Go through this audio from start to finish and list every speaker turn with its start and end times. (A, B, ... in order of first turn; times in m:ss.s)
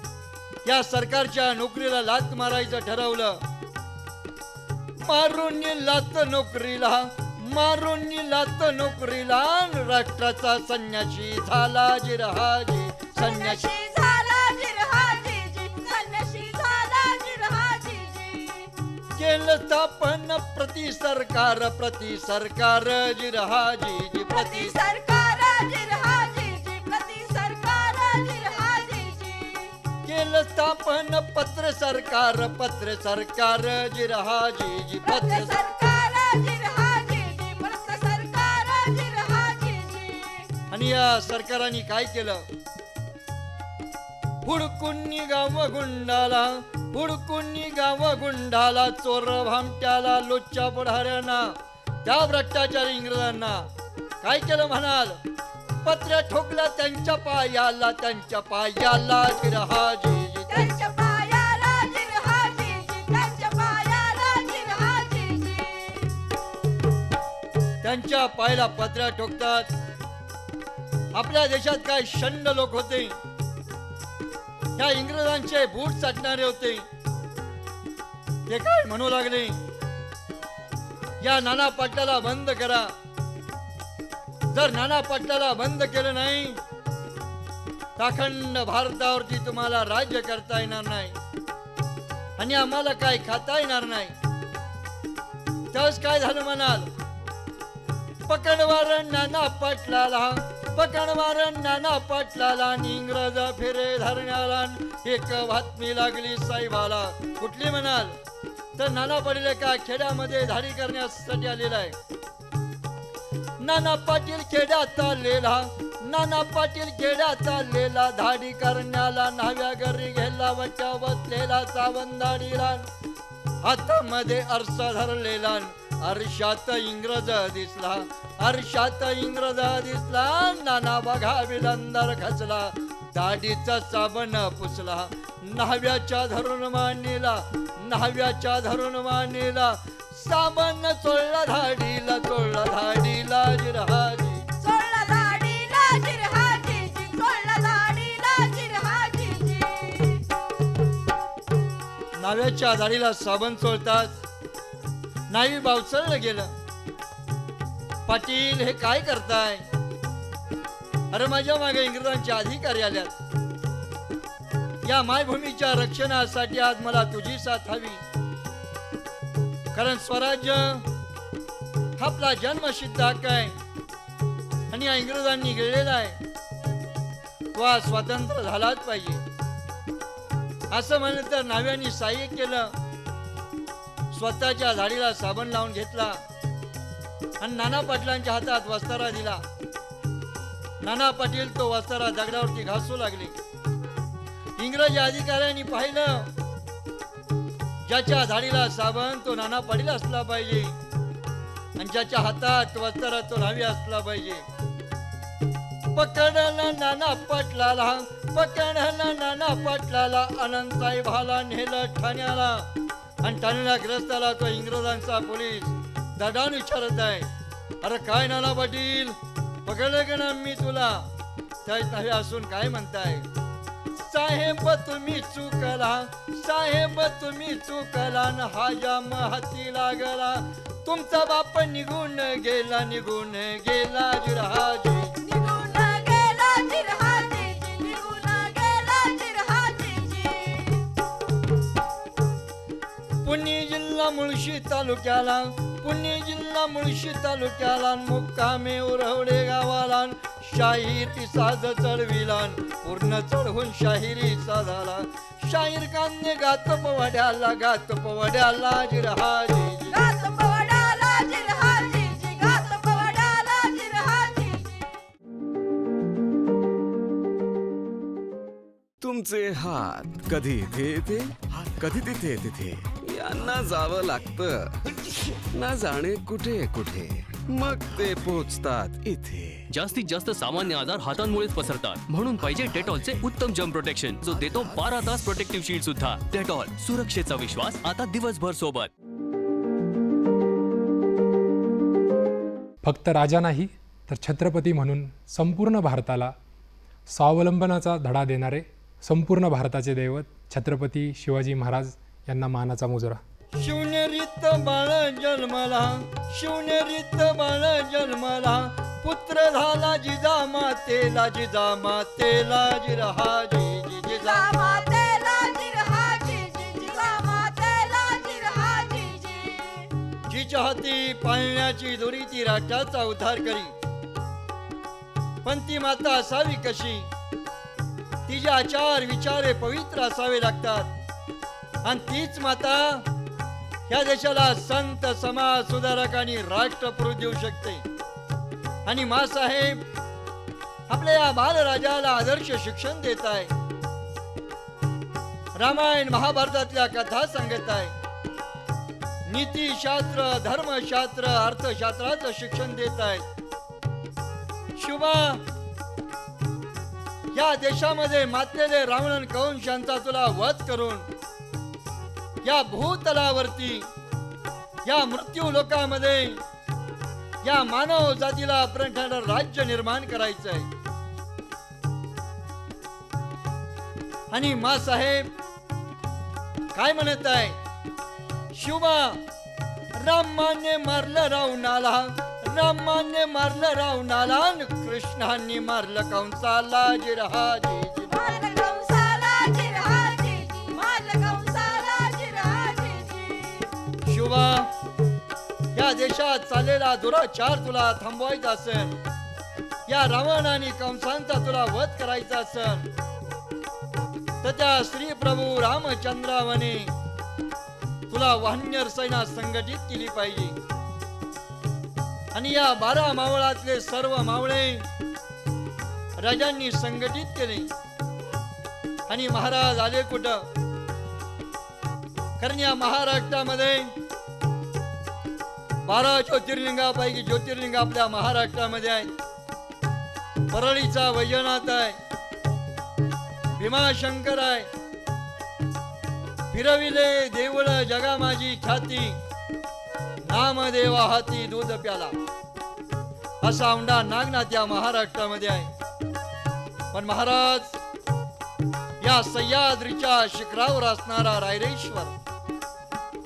0:00.6-0:03.4 A
0:05.0-0:13.6 A
0:13.2-0:18.7 B
0:19.2-0:24.7 A
0:24.3-0:29.7 B
0:30.1-0:35.5 A
0:35.0-0:40.5 B
0:40.7-0:42.4 A
0:44.4-0:51.5 A
0:52.0-0:53.6 A
0:54.2-0:55.2 A
0:55.8-1:00.7 A
1:00.5-1:06.1 B
1:07.8-1:09.7 A
1:11.1-1:13.1 A
1:14.8-1:16.8 A
1:18.5-1:19.6 A
1:21.2-1:22.9 A
1:24.5-1:26.6 A
1:28.0-1:31.1 A
1:32.4-1:34.1 A
1:35.7-1:36.9 A
1:38.3-1:48.1 A
1:48.8-1:51.9 A
1:53.6-2:02.8 A
2:03.6-2:24.4 A
2:24.6-2:30.2 B
2:32.2-2:34.2 A
2:35.3-2:36.5 A
2:38.1-2:39.6 A
2:41.1-2:43.1 A
2:44.8-2:48.0 A
2:49.7-2:50.9 A
2:52.0-2:53.5 A
2:54.7-2:56.2 A
2:57.5-2:59.2 A
3:00.7-3:02.7 A
3:04.1-3:06.2 A
3:07.4-3:09.4 A
3:10.8-3:13.4 A
3:14.6-3:16.3 A
3:17.9-3:20.7 A
3:21.8-3:24.4 A
3:25.9-3:32.6 A
3:33.2-3:37.3 A
3:37.8-3:41.0 A
3:41.6-3:43.2 A
3:44.0-3:55.1 A
3:55.2-4:00.8 B
4:03.2-4:20.0 A
4:19.9-4:24.9 B
4:29.0-4:34.8 C
4:35.5-4:39.6 C
4:39.7-4:48.9 D
4:44.3-4:44.9 C
4:52.8-4:56.3 E
4:57.1-5:03.2 E
5:03.6-5:14.5 A
5:14.1-5:19.9 B
5:20.3-5:23.7 A
5:25.4-5:27.1 A
5:28.3-5:30.9 A
5:31.8-5:33.0 A
5:33.9-5:37.8 A
5:38.9-5:39.8 A
5:40.9-5:43.5 A
5:45.6-5:47.9 A
5:49.3-5:53.2 A
5:54.8-5:55.4 A
5:57.4-6:01.0 A
6:02.4-6:03.9 A
6:04.8-6:06.4 A
6:07.4-6:10.7 A
6:14.3-6:15.3 A
6:16.8-6:17.6 A
6:18.5-6:19.2 A
6:20.0-6:28.2 A
6:28.1-6:33.7 B
6:34.0-6:34.7 A
6:35.8-6:39.0 A
6:39.9-6:42.9 A
6:44.4-6:46.9 A
6:48.1-6:50.6 A
6:52.3-6:54.8 A
6:56.2-6:57.7 A
6:59.1-7:00.4 A
7:02.4-7:03.9 A
7:05.8-7:09.1 A
7:10.5-7:12.0 A
7:13.6-7:14.7 A
7:16.5-7:19.2 A
7:20.2-7:22.1 A
7:23.4-7:25.7 A
7:26.9-7:27.8 A
7:29.0-7:32.1 A